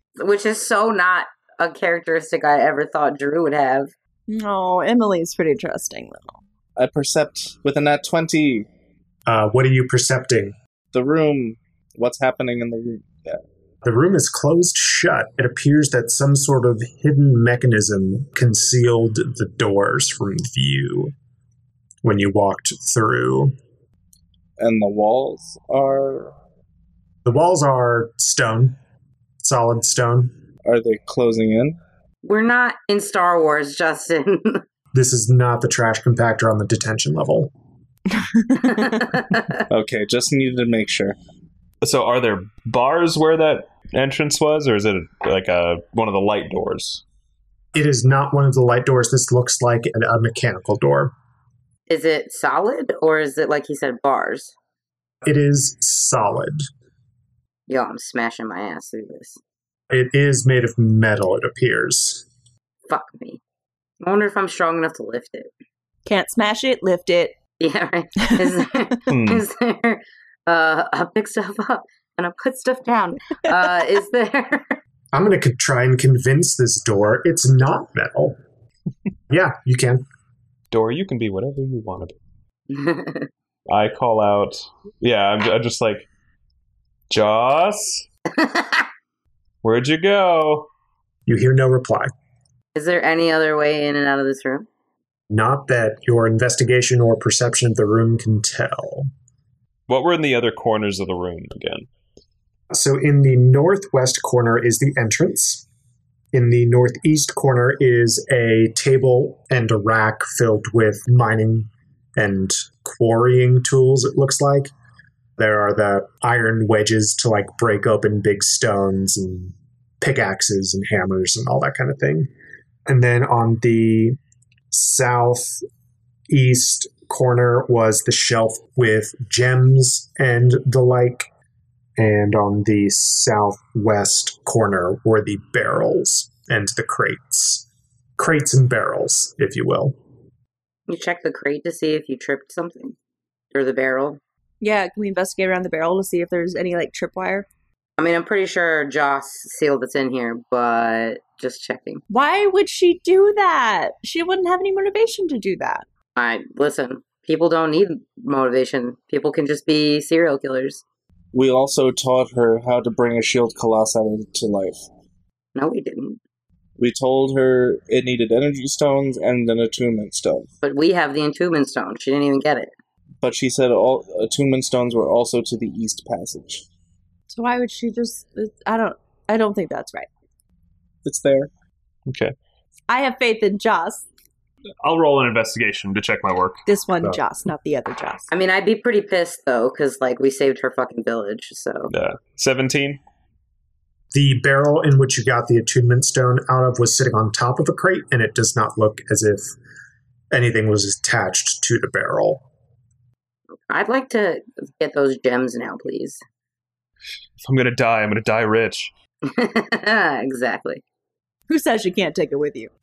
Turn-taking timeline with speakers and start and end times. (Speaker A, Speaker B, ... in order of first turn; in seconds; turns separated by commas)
Speaker A: 0.2-3.9, Speaker B: 4.3-6.4, Speaker C: 6.8-8.7, Speaker D: 9.3-10.6, Speaker C: 10.9-13.4, Speaker D: 13.8-21.1, Speaker D: 22.0-23.5, Speaker C: 24.6-26.4, Speaker D: 27.2-28.8, Speaker D: 29.4-30.3, Speaker C: 30.6-31.8, Speaker A: 32.2-34.6, Speaker D: 34.9-37.5, Speaker B: 38.2-39.0, Speaker A: 38.6-39.6, Speaker C: 39.7-41.2, Speaker E: 41.8-47.0, Speaker D: 47.7-51.1, Speaker A: 51.9-54.5, Speaker D: 55.2-56.7, Speaker A: 57.7-59.4, Speaker D: 59.9-62.3, Speaker A: 62.9-63.4, Speaker A: 64.0-65.5, Speaker B: 66.1-67.3, Speaker A: 67.6-74.8, Speaker E: 69.1-69.4, Speaker D: 75.1-78.4, Speaker D: 79.3-80.0, Speaker E: 80.7-82.2, Speaker A: 82.7-83.3, Speaker E: 83.7-86.1, Speaker E: 87.1-88.1, Speaker A: 88.3-88.9, Speaker E: 89.6-90.7, Speaker D: 91.3-92.1, Speaker A: 92.8-94.7, Speaker D: 95.3-99.1, Speaker E: 99.9-101.9, Speaker D: 102.7-105.7, Speaker D: 106.3-114.7, Speaker D: 115.4-122.3, Speaker D: 122.9-124.2, Speaker D: 124.7-125.7, Speaker D: 126.3-131.3, Speaker D: 132.0-137.7, Speaker D: 138.2-140.0, Speaker A: 140.9-143.0, Speaker A: 143.5-144.2, Speaker B: 144.6-147.5, Speaker A: 148.0-152.0, Speaker B: 152.1-155.8, Speaker A: 156.2-160.8, Speaker C: 161.3-164.8, Speaker A: 165.6-166.2, Speaker C: 166.8-170.5, Speaker A: 170.6-172.7, Speaker C: 173.2-176.6, Speaker B: 177.3-180.1, Speaker C: 181.1-181.5, Speaker E: 182.1-182.3, Speaker B: 182.9-184.1, Speaker E: 184.8-187.2, Speaker B: 186.7-188.3, Speaker A: 188.3-191.9, Speaker E: 191.9-193.0, Speaker D: 194.1-199.5, Speaker D: 200.3-202.4, Speaker A: 203.7-206.2, Speaker E: 207.4-208.9, Speaker A: 209.2-210.8, Speaker B: 211.5-212.7